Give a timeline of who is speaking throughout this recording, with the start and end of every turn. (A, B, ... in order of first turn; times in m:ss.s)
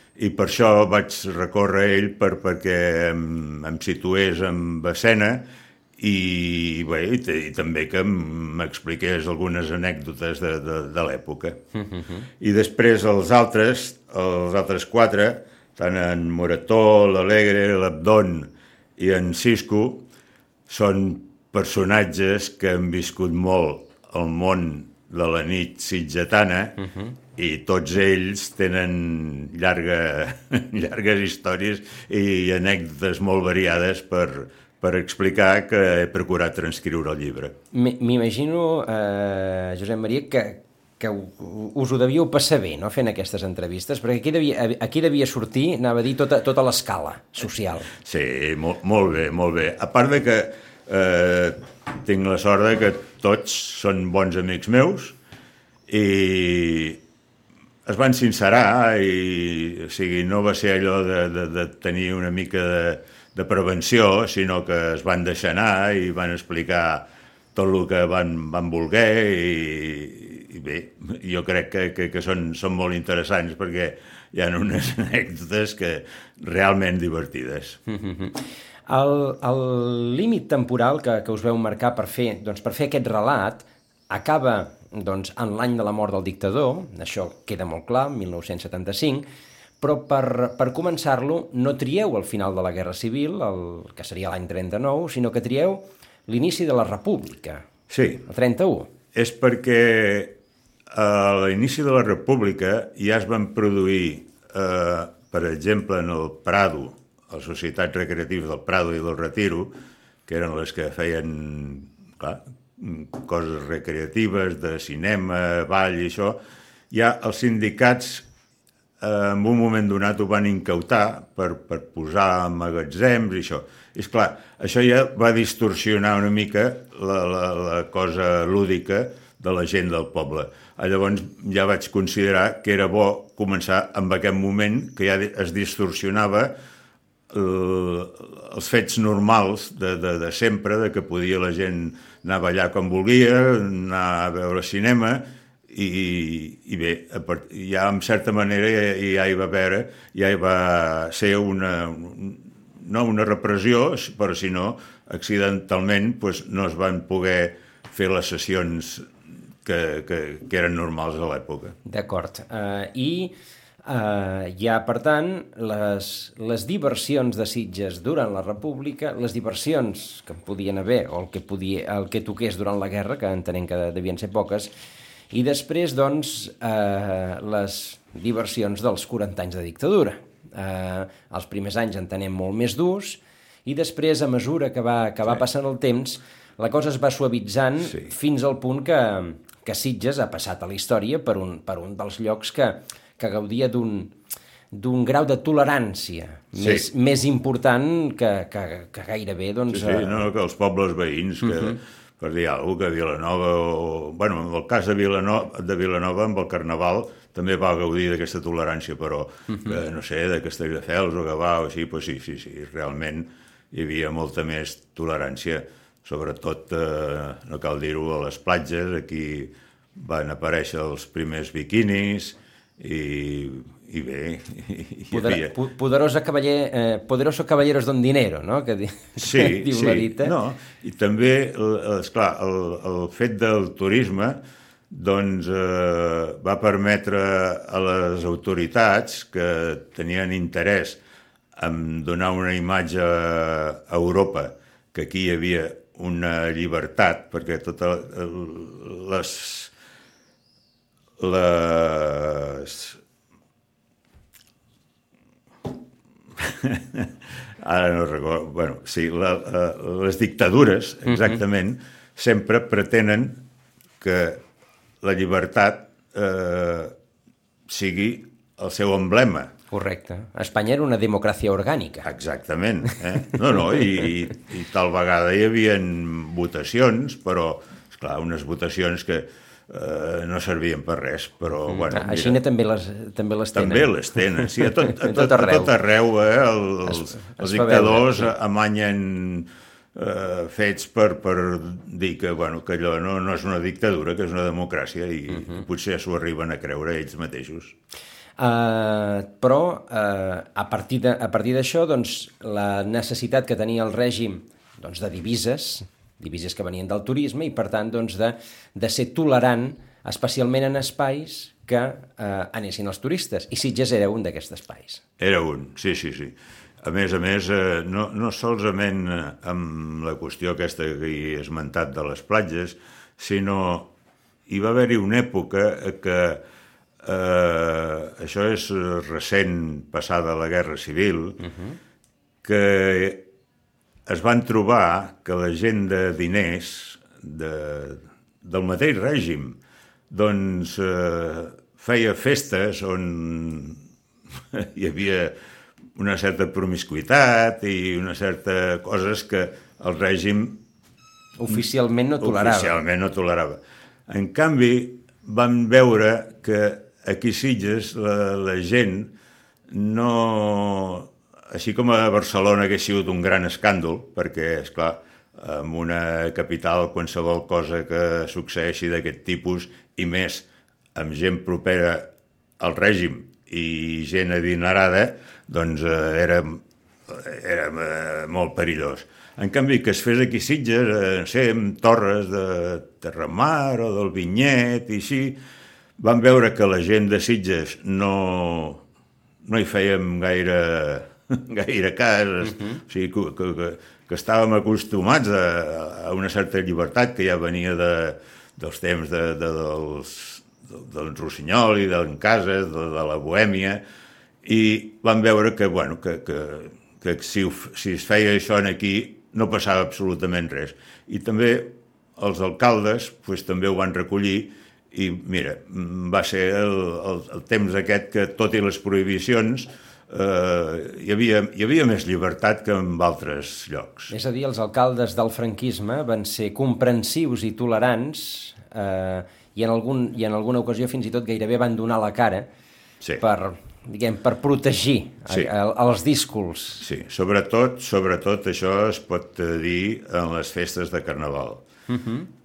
0:00.2-0:05.4 A
0:06.0-0:11.6 A
0:12.4-0:20.0 A
0:20.7-0:26.8 A
0:27.3-0:37.6 A
0:37.7-0:47.9 B
0:48.0-0:55.2 A
0:55.9-0:57.0 A
0:57.8-1:17.8 A
1:18.0-1:18.4 B
1:18.9-1:29.2 B
1:29.8-1:37.6 B
1:37.9-1:38.2 A
1:38.3-1:38.9 B
1:39.1-1:40.4 A
1:40.9-1:49.7 A
1:50.3-1:56.4 A
1:56.9-1:58.2 A
1:59.0-2:16.5 A
2:17.3-2:39.1 A
2:39.6-2:41.8 A
2:41.8-2:43.3 B
2:43.8-2:54.7 B
2:55.3-3:14.1 B
3:14.7-3:20.2 B
3:16.6-3:16.8 A
3:19.7-3:45.5 A
3:45.1-3:50.3 B
3:49.2-3:54.4 A
3:54.9-4:01.0 A
4:01.6-4:09.7 A
4:11.2-4:13.0 A
4:16.4-4:23.4 A
4:21.1-4:21.4 B
4:24.0-4:24.4 A
4:25.0-4:26.9 A
4:27.7-4:29.5 A
4:29.7-4:32.1 B
4:32.0-4:42.4 A
4:41.7-4:45.7 B
4:43.5-4:57.7 A
4:46.9-4:48.3 B
4:58.4-5:15.0 B
5:15.2-5:23.9 A
5:24.5-5:26.4 A
5:27.0-5:31.4 A
5:31.4-5:31.8 B
5:32.4-5:33.2 A
5:34.0-5:39.6 A
5:40.1-5:43.8 A
5:44.5-5:45.4 A
5:46.0-5:50.6 A
5:51.4-5:52.8 B
5:52.2-5:59.1 A
5:59.7-6:12.1 A
6:12.6-6:25.4 A
6:26.0-6:28.8 A
6:29.4-6:43.8 A
6:44.4-7:04.1 A
7:04.1-7:12.5 B
7:13.2-7:16.8 B
7:16.8-7:21.6 A
7:21.9-7:22.3 B